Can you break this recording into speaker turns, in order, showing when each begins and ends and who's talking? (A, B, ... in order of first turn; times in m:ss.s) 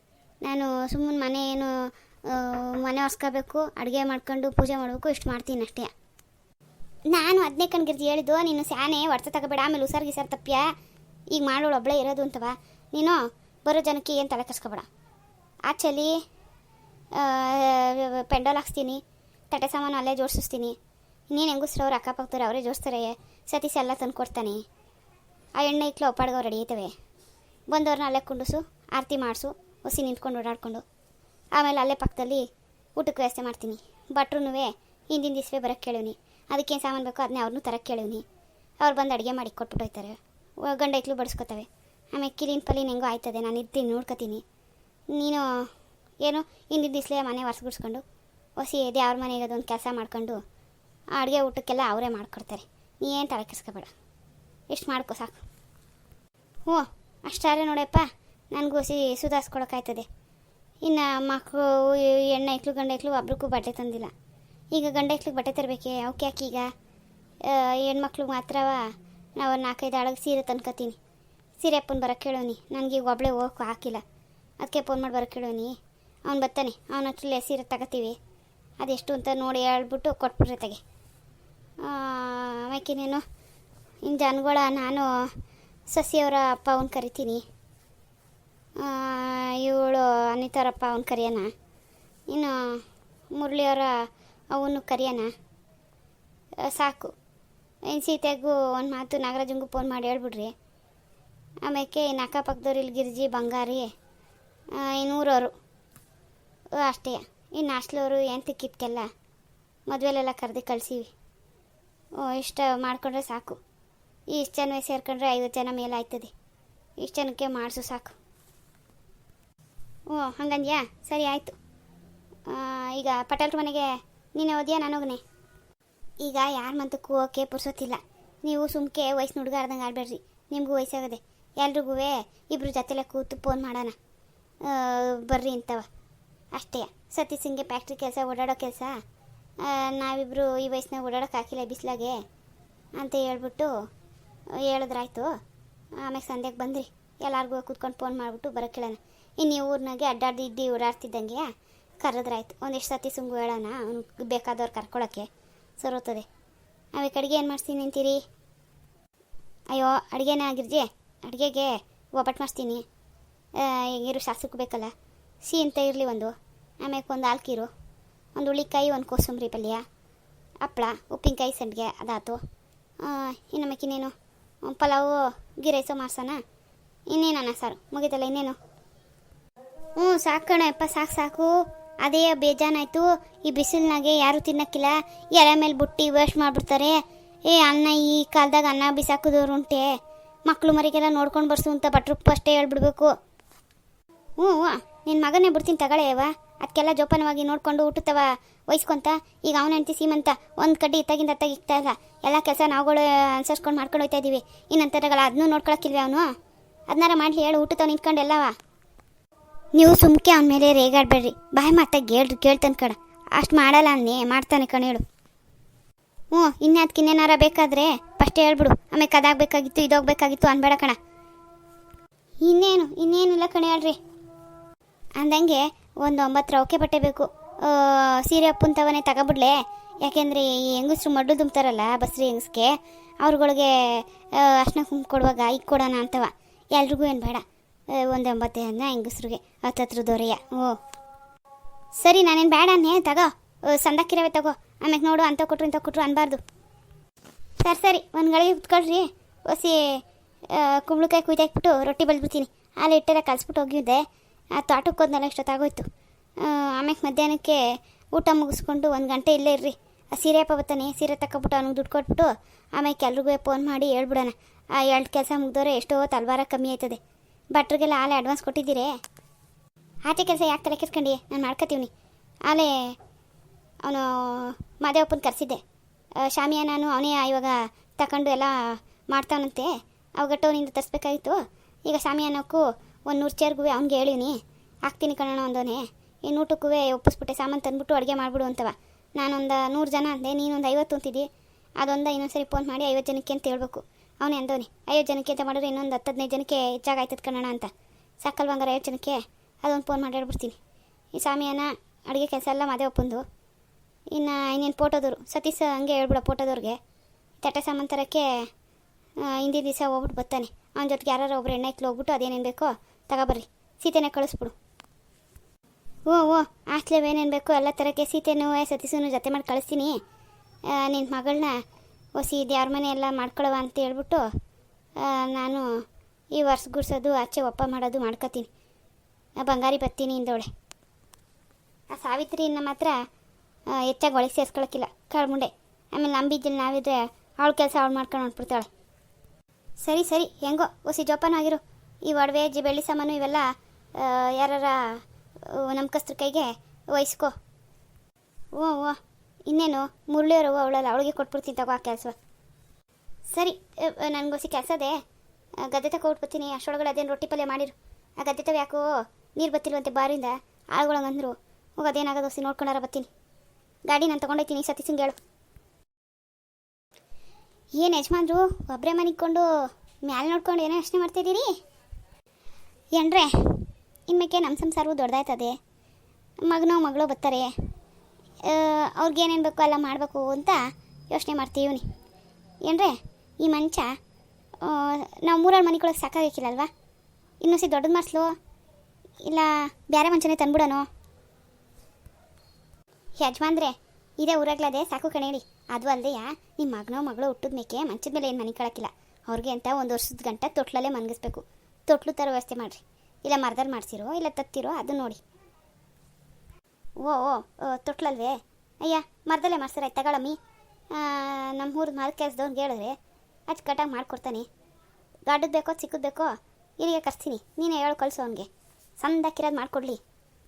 0:00.4-0:01.7 A
0:02.3-0:05.9 A
0:07.1-0:10.6 A
0:11.3-0:14.9 A
0:15.7-0:16.1 A
0:17.1-0:20.8 A
0:21.3-0:24.6 A
0:25.6-0:26.9 A
0:27.7-0:30.8 A
0:31.6-0:38.2 A
0:38.8-0:44.4 A
0:45.1-0:45.7 A
0:46.2-0:48.0 A
0:48.6-0:50.4 A
0:51.2-0:53.9 A
0:54.7-0:55.4 A
0:56.6-1:00.1 A
1:00.8-1:04.1 A
1:04.7-1:06.7 A
1:07.4-1:11.0 A
1:11.6-1:14.0 A
1:14.6-1:15.8 A
1:16.3-1:18.2 A
1:18.8-1:20.8 A
1:21.8-1:23.2 A
1:24.0-1:25.1 A
1:25.9-1:27.4 A
1:28.8-1:31.5 A
1:32.3-1:32.8 A
1:33.3-1:35.3 A
1:36.6-1:37.1 A
1:37.9-1:40.5 A
1:41.6-1:43.9 A
1:44.7-1:45.5 A
1:46.8-1:49.1 A
1:49.9-1:51.1 A
1:52.2-1:53.6 A
1:54.3-1:56.3 A
1:57.0-1:58.2 A
2:00.1-2:01.6 A
2:02.5-2:05.2 A
2:06.2-2:14.0 A
2:14.6-2:15.9 A
2:16.5-2:19.0 A
2:19.6-2:22.2 A
2:23.0-2:23.7 A
2:24.6-2:25.3 A
2:26.0-2:31.5 A
2:32.0-2:35.3 A
2:35.8-2:36.3 A
2:36.9-2:38.2 A
2:39.7-2:42.8 A
2:43.6-2:44.9 A
2:45.4-2:47.7 A
2:48.4-2:49.8 A
2:50.6-2:52.4 A
2:53.0-2:54.1 A
2:54.6-2:56.4 A
2:57.1-2:58.6 A
3:00.0-3:01.5 A
3:02.0-3:09.9 A
3:10.5-3:13.1 A
3:14.4-3:26.3 A
3:26.9-3:28.5 A
3:29.7-3:35.0 A
3:36.3-3:41.0 A
3:42.4-3:44.0 A
3:45.2-4:00.8 A
4:02.0-4:06.4 A
4:07.6-4:14.0 A
4:14.6-4:15.9 A
4:16.4-4:17.6 A
4:18.1-4:27.0 A
4:27.5-4:28.9 A
4:30.1-4:31.9 A
4:32.5-4:32.9 A
4:33.8-4:35.6 A
4:36.2-4:51.3 A
4:51.8-4:57.7 A
4:58.2-5:00.6 A
5:01.2-5:03.2 A
5:04.1-5:06.8 A
5:07.4-5:08.3 A
5:09.2-5:14.5 A
5:16.1-5:20.0 A
5:20.7-5:21.6 A
5:22.2-5:24.2 A
5:25.0-5:25.7 A
5:26.4-5:28.5 A
5:29.4-5:30.5 A
5:31.9-5:32.9 A
5:33.7-5:38.7 A
5:39.8-5:47.3 A
5:48.6-5:52.1 A
5:53.3-5:55.0 A
5:55.6-5:58.8 A
5:59.4-6:03.1 A
6:03.9-6:05.2 A
6:07.8-6:09.5 A
6:10.0-6:11.5 A
6:12.9-6:15.6 A
6:16.5-6:17.5 A
6:18.4-6:21.8 A
6:22.6-6:23.9 A
6:24.6-6:26.7 A
6:27.4-6:28.3 A
6:29.2-6:30.9 A
6:33.2-6:45.2 A
6:47.0-6:50.4 A
6:50.9-6:52.9 A
6:53.5-6:54.5 A
6:55.3-7:00.0 A